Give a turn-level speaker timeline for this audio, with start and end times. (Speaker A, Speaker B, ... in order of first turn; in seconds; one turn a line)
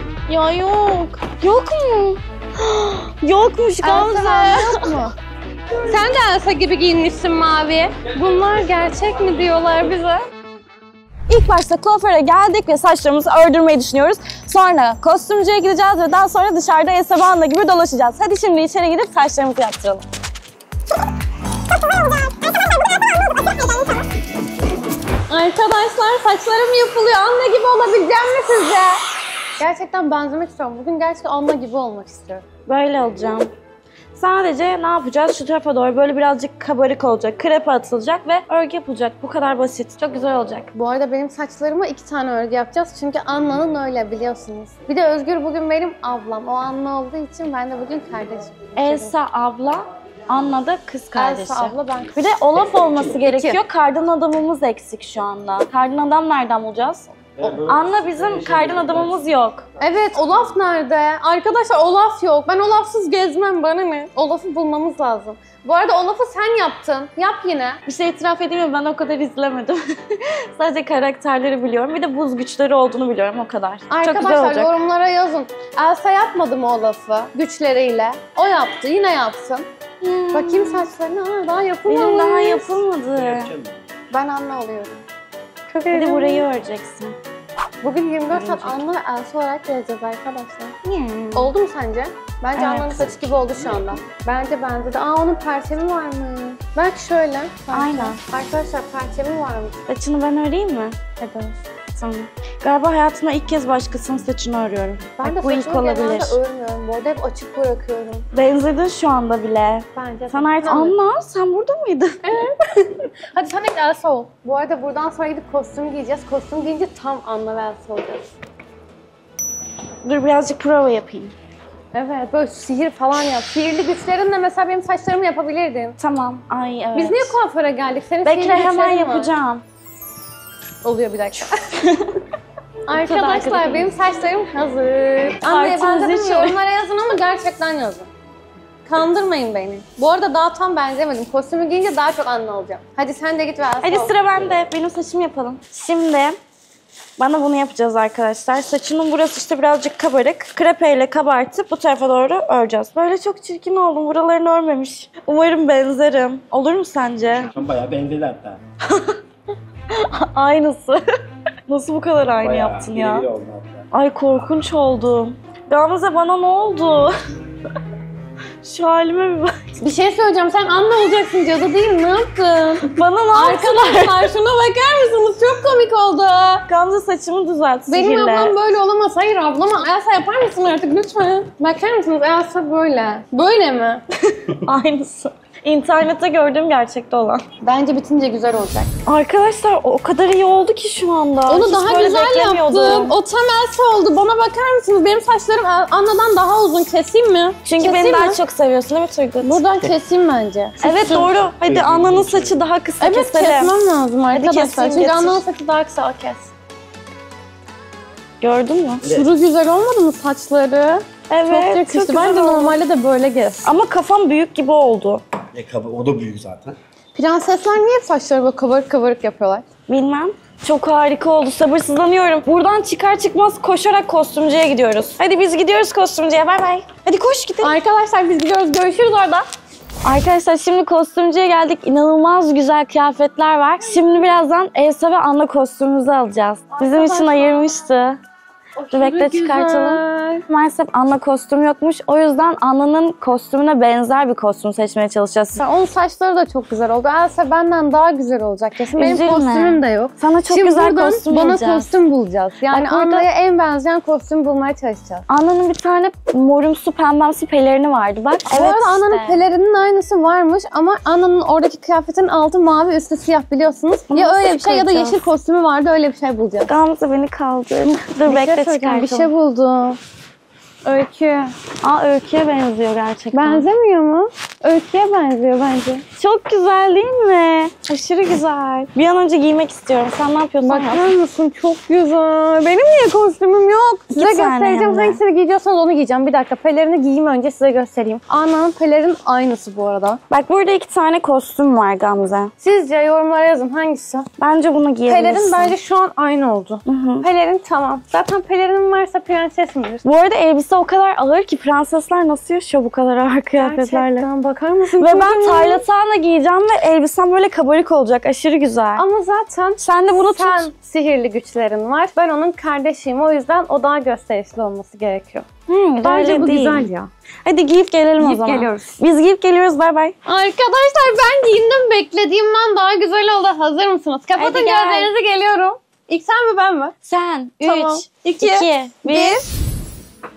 Speaker A: 0.3-4.9
Speaker B: 3.8-5.1
Speaker B: 5.9-10.2
Speaker A: 11.3-20.0
Speaker B: 25.3-29.0
Speaker B: 29.6-32.4
Speaker A: 32.7-33.5
Speaker A: 34.1-40.7
Speaker B: 40.7-49.1
Speaker A: 48.8-57.1
Speaker B: 51.1-52.2
Speaker B: 53.2-53.6
Speaker C: 57.4-59.2
Speaker A: 57.6-59.6
Speaker B: 59.8-67.8
Speaker A: 67.8-74.7
Speaker B: 73.9-79.7
Speaker A: 80.0-80.9
Speaker B: 80.3-82.8
Speaker A: 81.9-83.5
Speaker C: 83.2-83.7
Speaker B: 84.1-85.0
Speaker B: 85.7-86.4
Speaker A: 85.9-87.2
Speaker B: 87.8-90.7
Speaker A: 88.3-88.8
Speaker A: 90.8-91.5
Speaker B: 91.3-99.8
Speaker A: 92.5-93.1
Speaker A: 97.7-98.2
Speaker A: 99.9-101.2
Speaker B: 101.2-101.5
Speaker A: 101.9-106.4
Speaker B: 105.2-108.3
Speaker A: 108.3-112.2
Speaker B: 109.9-111.0
Speaker B: 112.2-118.2
Speaker A: 120.0-121.3
Speaker B: 121.9-126.0
Speaker A: 126.0-127.3
Speaker B: 126.9-129.3
Speaker A: 128.2-129.6
Speaker B: 130.8-131.7
Speaker A: 131.7-132.2
Speaker B: 132.9-138.1
Speaker A: 133.0-133.9
Speaker A: 135.4-136.6
Speaker B: 138.8-144.2
Speaker A: 143.8-146.4
Speaker A: 147.2-157.5
Speaker C: 157.5-158.6
Speaker A: 158.8-159.2
Speaker A: 159.9-161.0
Speaker A: 161.7-163.3
Speaker C: 162.4-163.9
Speaker A: 163.9-167.1
Speaker A: 168.6-169.6
Speaker B: 169.8-176.7
Speaker A: 172.9-174.3
Speaker A: 176.7-178.6
Speaker B: 177.9-184.0
Speaker A: 184.5-187.4
Speaker B: 187.6-188.9
Speaker A: 189.0-193.2
Speaker B: 191.5-198.4
Speaker A: 197.6-199.6
Speaker B: 199.4-201.3
Speaker A: 200.8-203.7
Speaker C: 201.6-202.6
Speaker B: 203.0-206.5
Speaker A: 204.3-205.4
Speaker A: 208.4-209.0
Speaker C: 209.0-209.3
Speaker B: 209.1-213.7
Speaker A: 211.3-212.8
Speaker A: 213.6-215.2
Speaker C: 215.5-216.7
Speaker B: 217.1-219.6
Speaker A: 219.9-227.8
Speaker B: 227.6-229.4
Speaker A: 230.0-238.2
Speaker B: 236.7-237.7
Speaker B: 238.8-240.4
Speaker A: 238.9-245.6
Speaker B: 245.6-255.2
Speaker A: 248.9-251.9
Speaker A: 252.7-253.3
Speaker A: 255.3-259.4
Speaker B: 258.5-266.7
Speaker A: 264.1-265.2
Speaker A: 266.7-269.3
Speaker B: 267.9-270.0
Speaker B: 270.8-271.5
Speaker A: 271.8-273.6
Speaker B: 273.3-276.0
Speaker A: 276.2-277.9
Speaker B: 277.9-278.9
Speaker A: 278.9-281.1
Speaker B: 280.6-290.2
Speaker A: 284.1-285.2
Speaker A: 290.3-292.5
Speaker B: 292.6-294.3
Speaker A: 294.4-295.7
Speaker B: 295.1-300.0
Speaker A: 296.9-297.2
Speaker A: 300.0-304.3
Speaker B: 303.6-305.8
Speaker A: 305.0-309.0
Speaker B: 309.0-317.1
Speaker A: 309.8-310.7
Speaker A: 315.7-316.9
Speaker A: 317.4-320.1
Speaker B: 318.2-319.0
Speaker B: 320.2-326.9
Speaker A: 324.4-325.1
Speaker A: 327.0-329.4
Speaker B: 327.6-329.4